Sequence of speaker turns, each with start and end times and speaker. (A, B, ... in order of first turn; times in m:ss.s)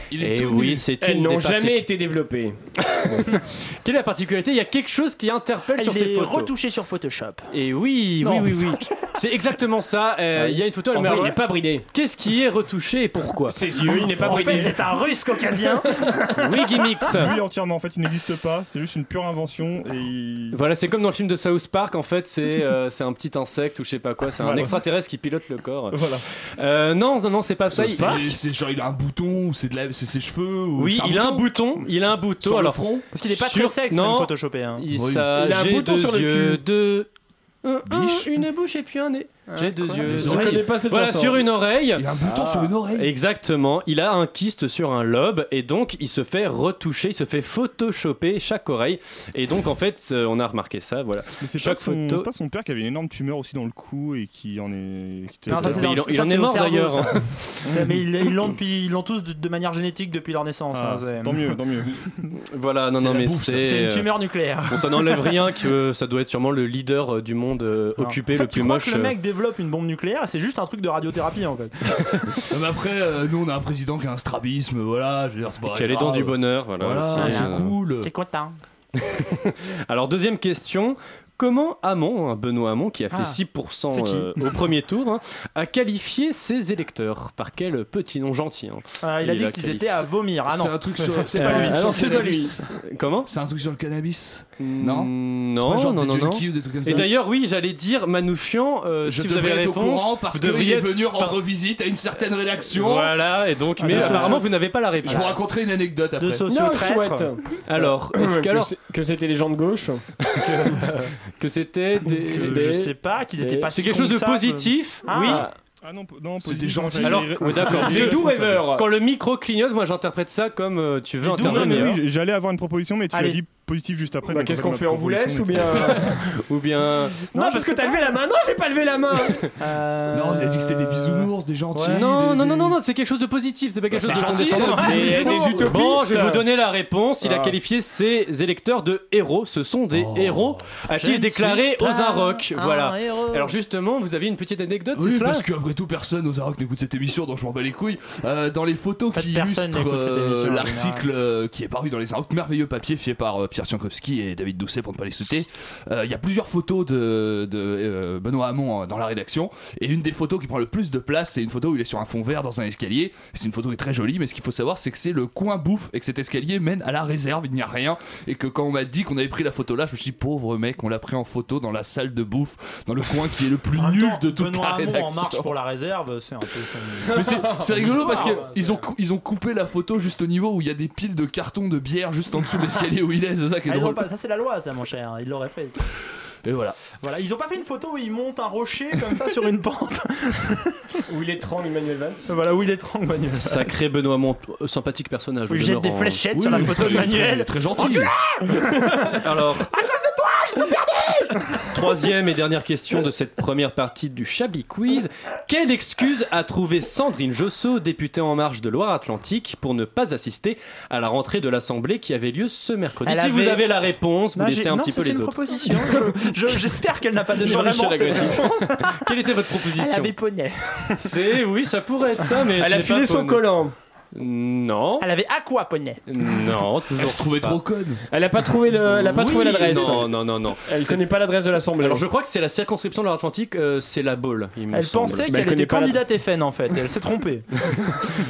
0:00.1-0:00.9 A
0:00.2-0:01.9 B
0:01.0-0:03.2 C
0:02.9-0:06.5 B
0:05.8-0:07.5 D
0:07.5-0:13.7 B
0:08.2-0:09.1 D
0:10.4-0:11.9 C
0:13.5-0:15.0 C
0:14.2-0:14.6 E
0:14.2-0:16.3 D
0:16.0-0:16.3 C
0:16.4-0:17.3 B
0:17.1-0:20.6 E
0:20.5-0:28.3 B
0:24.4-0:24.8 E
0:25.9-0:26.2 E
0:27.7-0:31.8 A
0:27.8-0:28.3 D
0:30.8-0:37.1 B
0:32.4-0:33.1 A
0:33.1-0:34.9 D
0:34.9-0:35.3 A
0:35.3-0:36.6 C
0:37.6-0:42.1 B
0:37.9-0:38.4 A
0:40.0-0:41.5 C
0:40.1-0:40.7 A
0:42.0-0:43.1 A
0:42.3-0:42.7 C
0:42.9-0:52.3 B
0:51.4-0:55.8 E
0:55.5-1:01.6 D
0:55.5-0:57.6 B
0:57.7-0:58.0 E
1:00.7-1:01.9 E
1:02.3-1:04.1 B
1:03.0-1:03.7 A
1:03.3-1:05.4 D
1:04.7-1:09.2 B
1:08.0-1:12.5 D
1:12.5-1:18.1 A
1:15.7-1:17.7 B
1:17.2-1:18.6 D
1:19.0-1:30.0 B
1:23.1-1:23.4 D
1:23.9-1:24.6 D
1:29.0-1:32.2 D
1:30.5-1:32.6 A
1:31.3-1:32.6 C
1:31.5-1:32.2 B
1:32.8-1:33.3 B
1:33.2-1:37.1 A
1:34.6-1:41.4 B
1:39.0-1:43.2 A
1:42.7-1:45.4 B
1:43.8-1:44.5 D
1:43.9-1:44.4 A
1:45.0-1:46.5 A
1:45.0-1:45.4 D
1:46.2-1:47.3 D
1:46.5-1:50.0 C
1:47.7-1:48.7 B
1:50.2-1:50.9 B
1:50.6-1:51.1 C
1:51.4-1:52.6 B
1:52.3-1:53.7 C
1:52.3-1:55.5 D
1:53.7-1:55.5 B
1:55.8-1:58.6 E
1:56.4-1:57.3 A
1:57.0-2:02.0 B
1:57.7-1:58.9 C
2:01.2-2:06.2 E
2:03.1-2:03.4 D
2:04.3-2:06.2 C
2:06.4-2:07.2 B
2:07.3-2:08.1 D
2:07.3-2:09.5 C
2:09.6-2:12.1 D
2:10.1-2:12.8 A
2:11.9-2:25.4 B
2:13.9-2:15.7 A
2:14.0-2:15.6 D
2:14.8-2:16.5 C
2:17.2-2:17.6 C
2:19.9-2:20.6 A
2:20.9-2:23.5 D
2:25.0-2:55.5 A
2:29.1-2:31.1 D
2:53.7-2:58.8 D
2:57.0-3:04.1 A
3:03.7-3:05.8 D
3:06.4-3:06.8 A
3:07.0-3:11.0 D
3:11.1-3:12.3 C
3:12.3-3:13.7 D
3:13.4-3:16.2 B
3:15.5-3:19.2 D
3:16.3-3:18.1 A
3:19.1-3:19.7 B
3:19.7-3:21.6 D
3:21.7-3:36.0 B
3:33.0-3:33.7 D
3:34.4-3:41.3 D
3:37.4-3:40.1 B
3:41.0-3:43.5 B
3:42.6-3:43.7 C
3:44.1-3:45.1 B
3:45.0-3:46.0 D
3:46.1-3:47.6 B
3:47.0-3:48.0 A
3:48.1-3:52.0 C
3:48.8-3:51.0 B
3:51.8-3:55.3 B
3:54.7-3:57.9 D
3:55.3-3:56.0 C